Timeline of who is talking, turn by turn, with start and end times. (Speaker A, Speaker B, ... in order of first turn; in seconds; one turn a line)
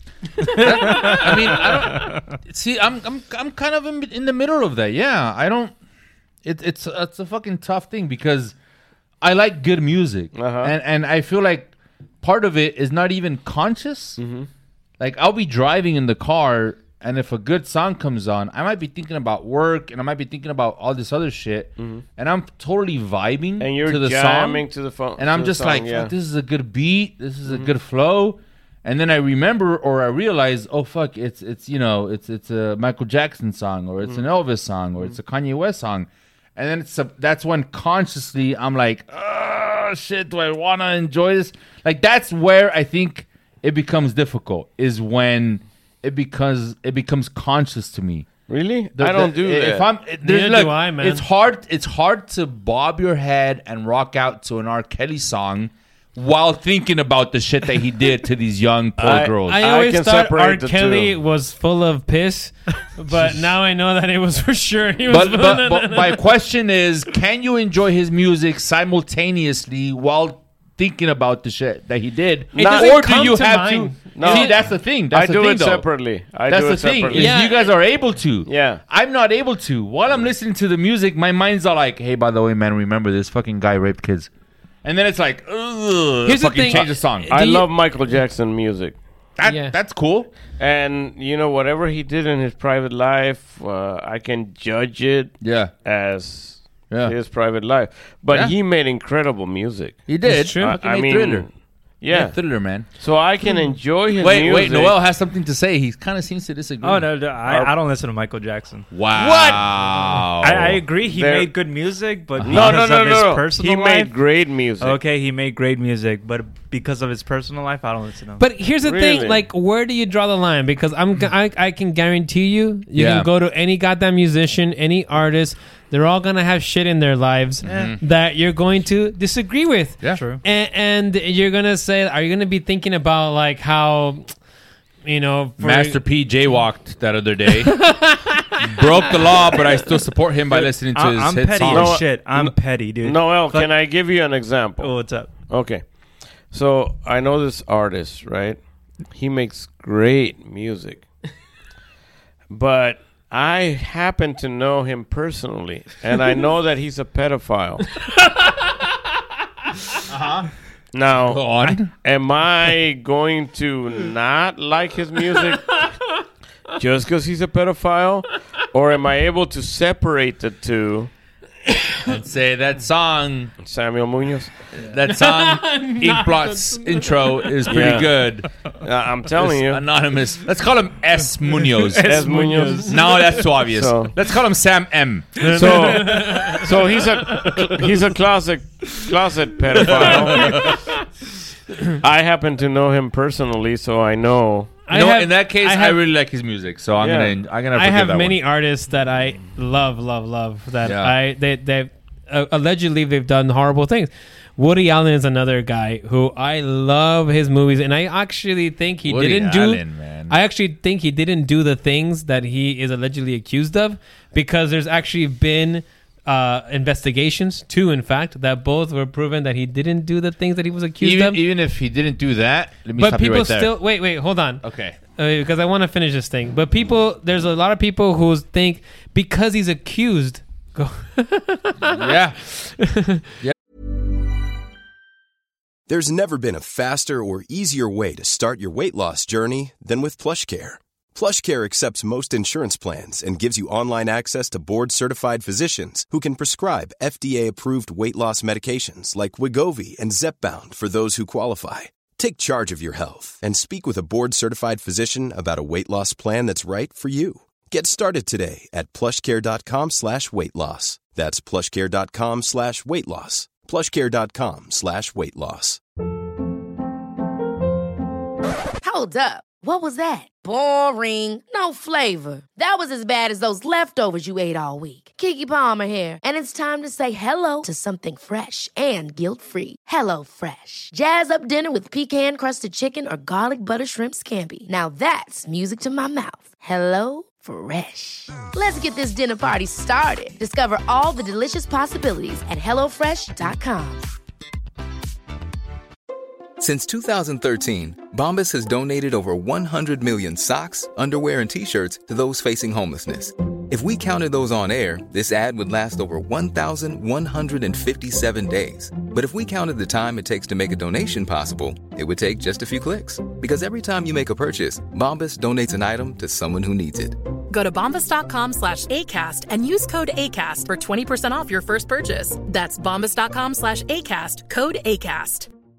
Speaker A: 0.6-5.7
Speaker A: 6.4-8.5
Speaker A: 9.2-14.2
Speaker B: 10.3-10.7
Speaker B: 14.2-14.5
Speaker A: 15.0-24.6
Speaker B: 21.8-22.0
Speaker B: 23.6-26.1
Speaker A: 25.2-48.3
Speaker B: 27.4-27.7
Speaker B: 48.5-49.9
Speaker A: 49.0-59.6
Speaker C: 50.2-51.2
Speaker B: 59.0-61.1
Speaker C: 59.4-66.2
Speaker A: 65.1-75.9
Speaker B: 72.5-73.2
Speaker C: 72.5-74.5
Speaker B: 74.1-77.7
Speaker A: 76.5-84.3
Speaker C: 77.1-77.6
Speaker B: 78.5-78.8
Speaker A: 84.8-87.3
Speaker C: 86.2-87.7
Speaker B: 86.7-89.0
Speaker A: 89.4-90.3
Speaker C: 89.4-89.8
Speaker B: 90.6-105.0
Speaker A: 95.4-95.7
Speaker A: 100.1-101.5
Speaker C: 100.2-100.7
Speaker A: 102.1-102.9
Speaker A: 104.1-107.2
Speaker D: 106.8-114.1
Speaker B: 107.4-107.7
Speaker A: 108.9-110.8
Speaker B: 111.1-111.5
Speaker A: 112.4-112.9
Speaker B: 112.4-115.0
Speaker D: 114.8-118.4
Speaker C: 118.4-134.3
Speaker B: 118.8-119.4
Speaker A: 122.9-123.3
Speaker D: 127.6-127.9
Speaker A: 127.6-128.0
Speaker D: 130.1-130.4
Speaker C: 135.0-136.0
Speaker A: 135.6-142.2
Speaker C: 137.7-139.1
Speaker D: 140.5-143.8
Speaker B: 141.7-151.1
Speaker D: 144.8-145.3
Speaker B: 152.5-157.9
Speaker C: 158.2-158.7
Speaker A: 160.1-160.5
Speaker B: 160.9-165.8
Speaker A: 161.2-161.9
Speaker B: 166.7-171.1
Speaker A: 172.1-173.5
Speaker B: 173.6-174.7
Speaker A: 174.8-178.5
Speaker C: 175.1-177.6
Speaker B: 177.7-179.8
Speaker A: 179.3-182.2
Speaker D: 181.8-183.2
Speaker B: 182.0-184.2
Speaker C: 182.3-182.9
Speaker A: 182.8-186.1
Speaker C: 185.4-186.7
Speaker B: 185.5-190.8
Speaker A: 189.8-190.8
Speaker C: 190.4-190.7
Speaker B: 192.0-194.8
Speaker C: 194.9-196.0
Speaker A: 194.9-198.4
Speaker B: 197.0-197.3
Speaker C: 197.7-221.4
Speaker A: 200.8-201.1
Speaker A: 209.1-210.3
Speaker A: 221.0-223.8
Speaker C: 222.9-233.2
Speaker A: 224.6-224.9
Speaker A: 231.8-232.4
Speaker E: 235.9-265.8
Speaker F: 268.8-294.1
Speaker G: 296.6-317.2
Speaker H: 317.5-325.5